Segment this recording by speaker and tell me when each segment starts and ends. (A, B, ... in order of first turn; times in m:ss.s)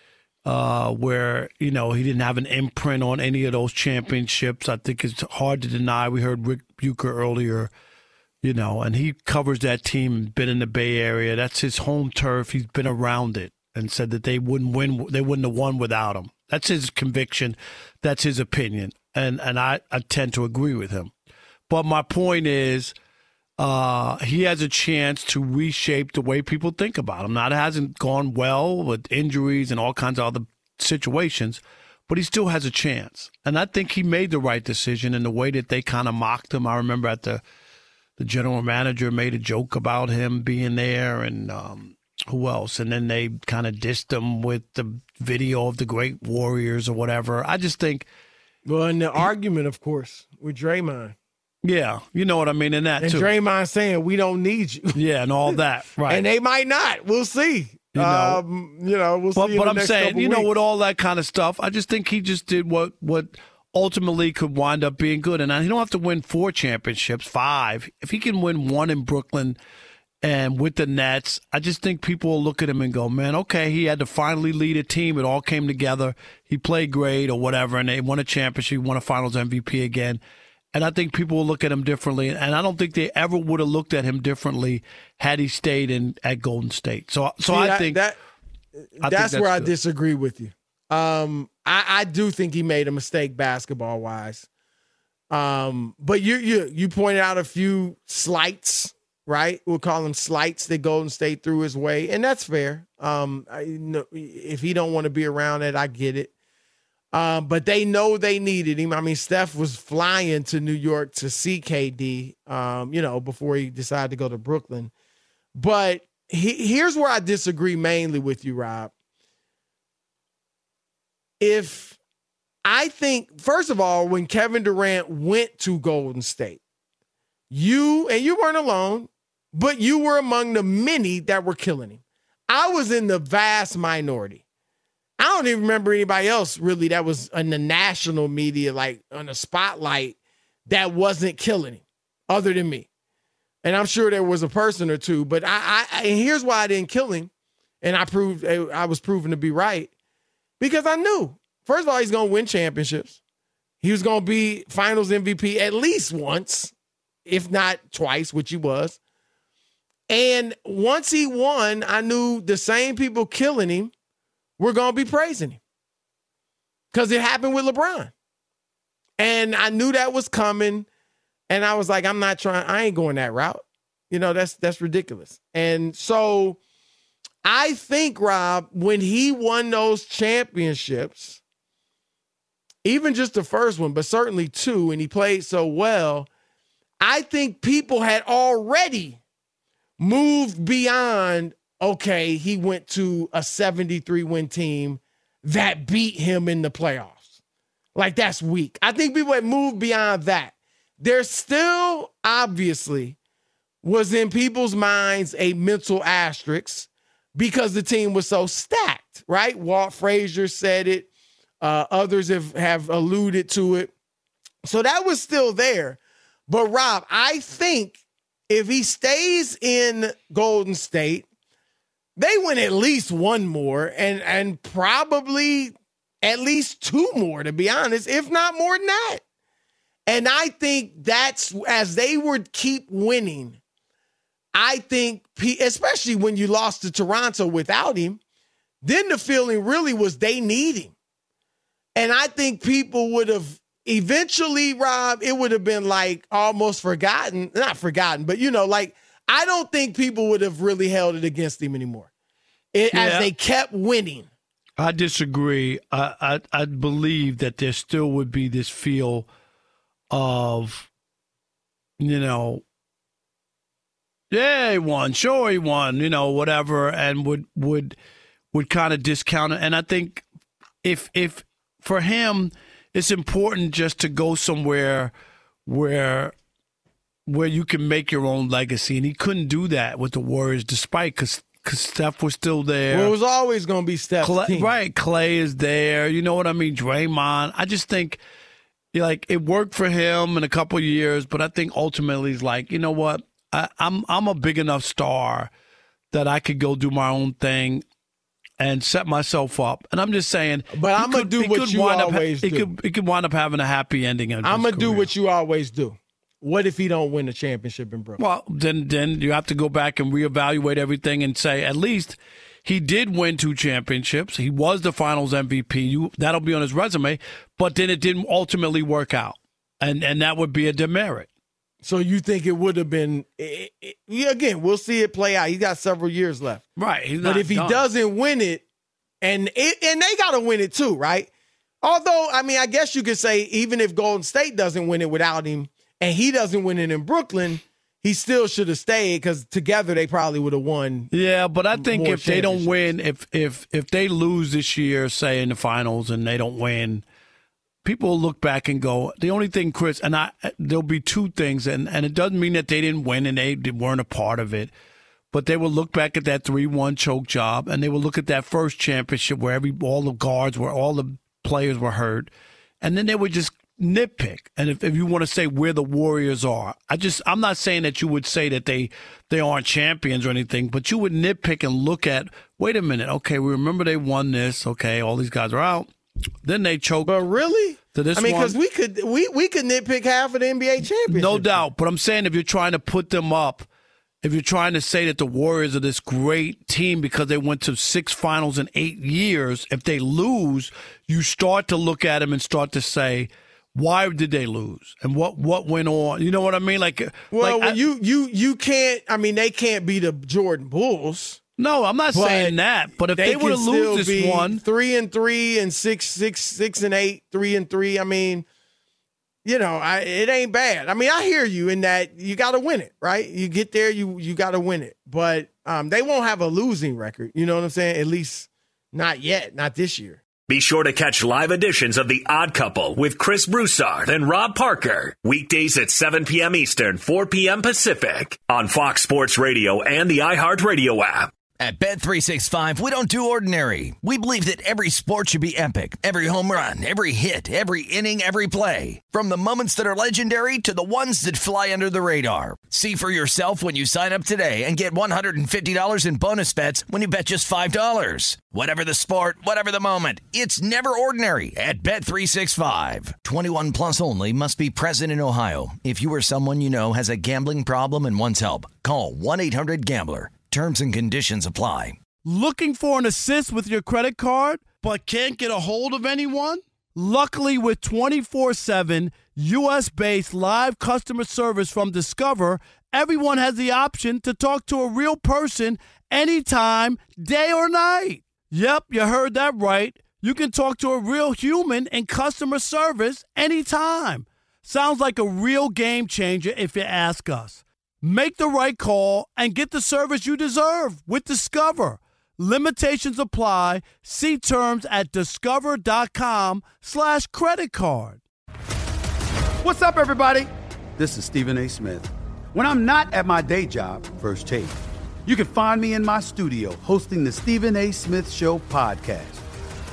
0:00.4-0:07.7 A
0:08.4-0:21.1 A
0:21.7-0:22.9 A
0:23.6-0:37.4 A
0:38.2-0:48.1 A
0:48.7-0:51.1 B
0:51.6-0:53.3 A
0:53.0-0:55.0 B
0:55.0-0:56.3 A
0:56.1-1:00.5 B
0:57.9-0:58.4 A
0:59.4-1:09.6 A
1:10.2-1:20.2 A
1:20.7-1:28.0 A
1:27.5-1:28.2 B
1:29.0-1:34.5 B
1:29.0-1:29.7 A
1:35.3-1:46.3 B
1:47.1-1:54.9 B
1:55.6-1:58.9 B
2:01.4-2:02.0 B
2:02.6-2:06.6 B
2:07.5-2:14.4 B
2:15.2-2:22.9 B
2:23.6-2:27.3 B
2:27.8-2:29.9 B
2:30.6-2:33.2 B
2:33.8-2:36.7 B
2:37.3-2:39.0 B
2:40.1-2:43.9 B
2:44.6-2:45.6 B
2:46.9-2:48.1 B
2:49.2-2:50.9 B
2:51.5-2:56.6 B
2:57.4-3:01.4 B
3:02.8-3:06.3 B
3:07.0-3:09.2 B
3:10.0-3:17.3 B
3:18.0-3:23.2 B
3:23.8-3:31.1 B
3:31.6-3:33.9 B
3:34.6-3:41.3 B
3:42.2-3:49.2 B
3:50.1-3:53.6 B
3:54.5-3:58.2 B
3:58.8-4:00.9 B
4:02.0-4:12.1 B
4:12.7-4:14.3 B
4:12.9-4:13.3 A
4:14.8-4:19.3 A
4:20.1-4:20.9 A
4:22.0-4:22.6 A
4:24.3-4:28.0 A
4:28.5-4:30.2 A
4:30.8-4:35.1 A
4:35.7-4:36.3 A
4:37.3-4:43.1 A
4:42.9-4:44.7 B
4:44.2-4:48.2 A
4:48.9-4:55.5 A
4:56.1-4:57.8 A
4:58.6-5:05.1 A
5:00.7-5:02.7 B
5:04.4-5:08.2 B
5:08.2-5:21.3 A
5:21.8-5:26.6 B
5:26.8-5:27.8 A
5:27.2-5:28.6 B
5:29.2-5:31.3 B
5:31.8-5:41.1 B
5:41.1-5:47.0 A
5:41.7-5:42.8 B
5:47.8-5:54.7 A
5:55.3-6:15.9 A
6:16.4-6:17.2 A
6:17.0-6:21.6 B
6:17.9-6:18.6 A
6:21.1-6:23.7 A
6:24.2-6:37.8 A
6:37.3-6:41.4 B
6:41.6-6:44.6 A
6:42.1-6:42.6 B
6:43.2-6:48.4 B
6:49.4-7:00.2 B
7:00.5-7:11.3 C
7:11.6-7:42.0 D
7:42.2-8:18.2 A
8:19.6-8:29.4 E